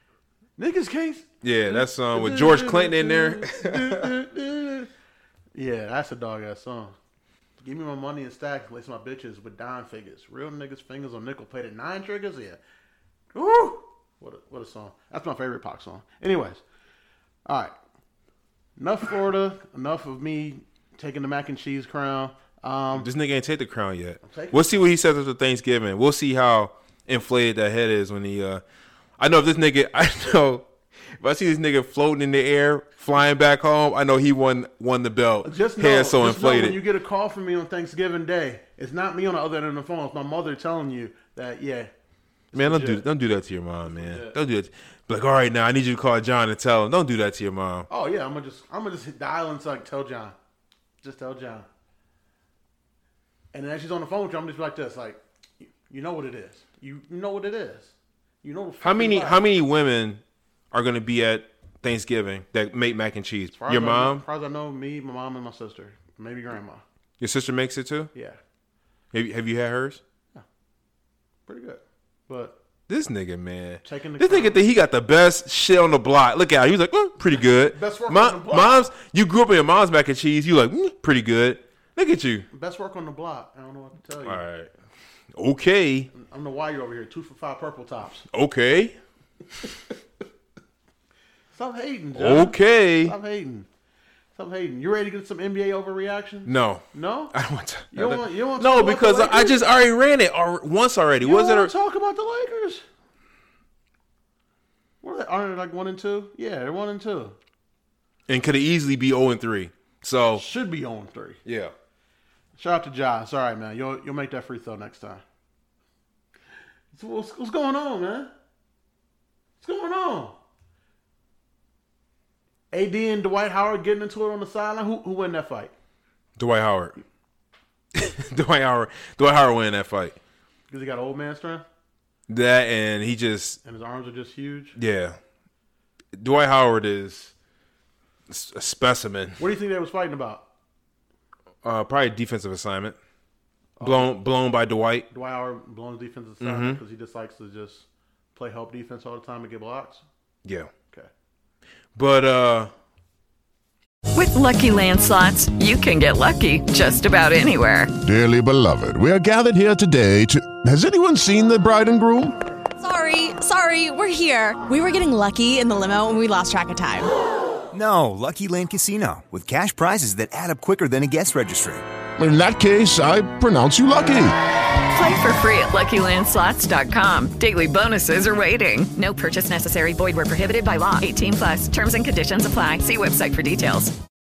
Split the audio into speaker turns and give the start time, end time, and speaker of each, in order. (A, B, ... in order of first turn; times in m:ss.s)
0:00.6-0:04.9 A
0:01.4-0:04.1 B
0:05.5-0:06.9 A
0:07.6-0:12.6 A
0:13.3-0:16.6 A
0:17.4-0:17.7 A
0:18.8-0:23.1 A
0:23.0-0:28.6 B
0:24.2-0:24.8 A
0:29.2-0:30.7 B
0:31.2-0:36.8 B
0:35.4-0:41.9 A
0:42.5-0:43.0 A
0:42.5-0:47.9 B
0:43.8-0:44.4 A
0:47.9-0:50.4 A
0:51.0-0:51.7 A
0:53.5-0:59.4 A
0:58.8-1:04.2 B
1:03.5-1:06.8 A
1:07.2-1:08.1 B
1:08.1-1:08.4 A
1:09.1-1:10.0 B
1:11.5-1:12.6 A
1:12.9-1:22.5 B
1:13.8-1:14.6 A
1:17.3-1:18.9 A
1:22.5-1:24.4 A
1:24.2-1:24.7 B
1:25.4-1:26.1 B
1:26.1-1:28.2 A
1:28.3-1:29.0 B
1:31.5-1:33.7 A
1:32.1-1:33.1 B
1:34.4-1:37.3 A
1:36.4-1:41.7 B
1:37.9-1:39.6 A
1:41.2-1:42.8 A
1:45.0-1:47.4 A
1:48.3-1:50.4 B
1:50.4-1:51.4 A
1:51.4-1:51.7 B
1:52.6-1:55.2 A
1:56.9-1:58.3 A
1:59.6-2:00.4 A
2:02.7-2:05.7 A
2:06.4-2:07.0 B
2:07.9-2:10.2 B
2:10.7-2:11.6 A
2:12.3-2:13.6 B
2:13.6-2:14.8 A
2:14.8-2:15.2 B
2:16.2-2:17.3 B
2:18.3-2:19.4 B
2:19.4-2:20.4 A
2:21.6-2:23.0 B
2:23.8-2:24.1 A
2:23.8-2:25.1 B
2:25.1-2:30.0 A
2:26.4-2:26.8 B
2:30.4-2:30.7 B
2:32.0-2:32.7 B
2:34.1-2:37.9 C
2:38.0-2:42.4 D
2:42.8-2:47.1 E
2:47.7-2:51.8 F
2:52.2-2:54.4 D
2:54.9-3:04.0 C